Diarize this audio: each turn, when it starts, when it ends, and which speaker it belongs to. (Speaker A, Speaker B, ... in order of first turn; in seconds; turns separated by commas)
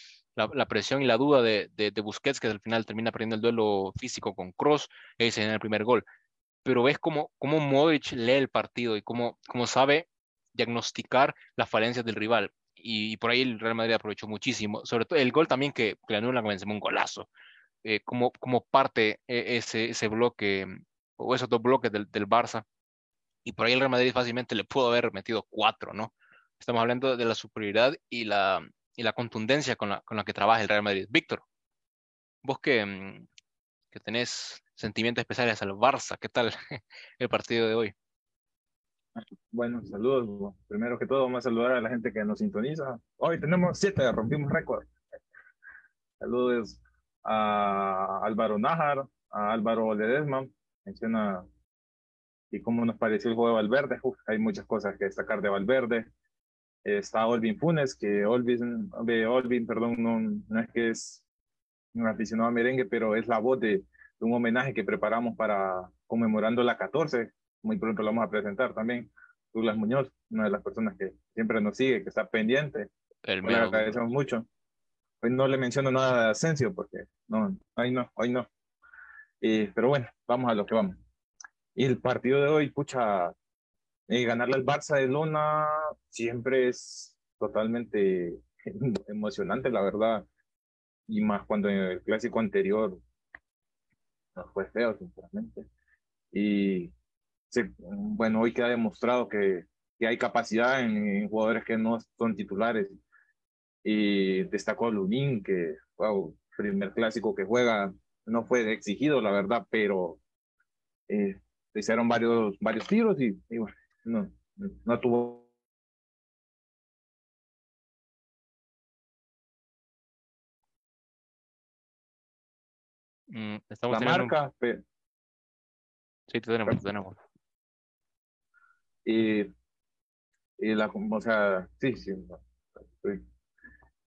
Speaker A: 0.4-6.1, Speaker A: 6.6-17.3, Speaker A: 17.8-22.6, Speaker A: 23.4-31.4, Speaker A: 32.4-33.3, Speaker A: 33.9-37.9, Speaker B: 39.5-44.9, Speaker B: 46.2-51.5, Speaker B: 52.5-56.1, Speaker B: 56.9-61.2, Speaker B: 61.9-72.9, Speaker A: 73.2-74.0, Speaker B: 73.4-74.5, Speaker B: 75.2-78.5, Speaker B: 79.4-81.0, Speaker B: 81.8-83.3, Speaker B: 84.1-90.2, Speaker B: 91.1-93.0, Speaker B: 94.4-95.7, Speaker B: 96.3-96.9, Speaker B: 97.5-103.0, Speaker B: 103.8-110.2, Speaker B: 111.1-115.5, Speaker A: 123.3-124.3, Speaker B: 123.9-124.8, Speaker A: 126.3-127.2, Speaker B: 129.0-129.5, Speaker B: 130.6-132.4